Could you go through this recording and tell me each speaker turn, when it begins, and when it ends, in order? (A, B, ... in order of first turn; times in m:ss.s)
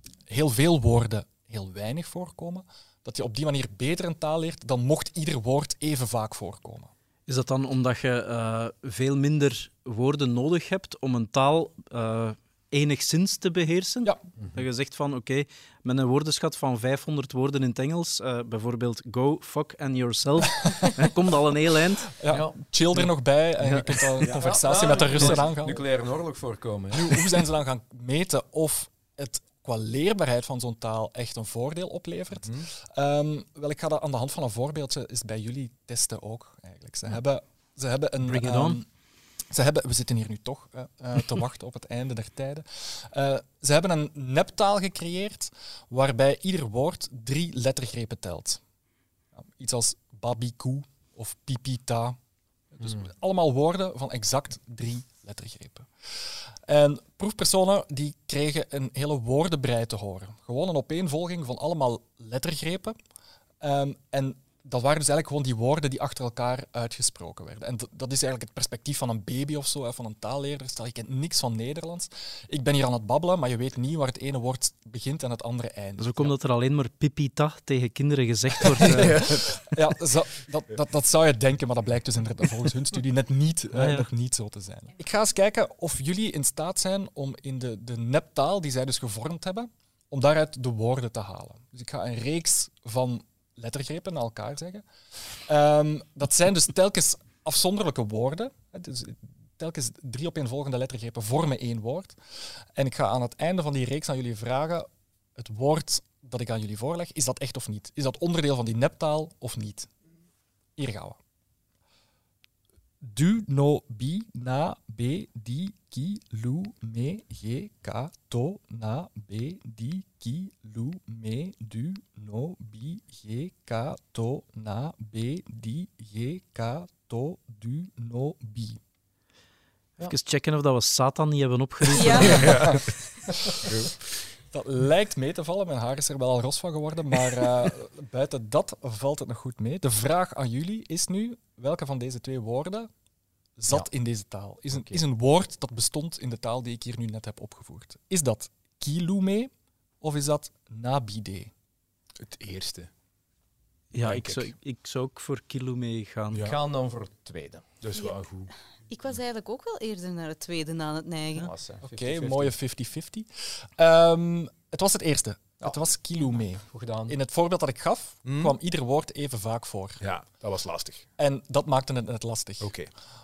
0:00.3-0:06.9 A
0:07.3-0:22.1 B
0:22.2-0:25.8 A
0:22.3-0:22.6 C
0:23.6-0:27.3 C
0:26.9-0:38.9 A
0:38.2-0:38.8 B
0:39.5-0:48.6 A
0:49.4-0:52.2 A
0:52.7-1:03.0 A
1:03.6-1:16.3 A
1:16.0-1:19.4 B
1:18.8-1:34.8 A
1:23.7-1:24.1 B
1:35.4-1:49.9 A
1:50.8-1:51.2 A
1:53.0-2:08.8 A
2:10.0-2:12.8 B
2:11.9-2:12.6 D
2:12.3-2:12.9 E
2:13.6-2:13.9 E
2:14.5-2:22.9 A
2:23.6-2:31.5 A
2:32.2-2:32.9 E
2:33.9-2:36.4 B
2:34.0-2:34.5 E
2:36.3-2:36.6 E
2:36.4-2:37.7 C
2:37.8-2:38.5 E
2:38.9-2:41.5 D
2:41.4-2:42.5 C
2:41.8-2:50.0 A
2:46.6-2:47.2 C
2:48.2-2:48.6 E
2:50.0-2:51.1 E
2:51.2-2:52.7 A
2:52.6-2:52.9 E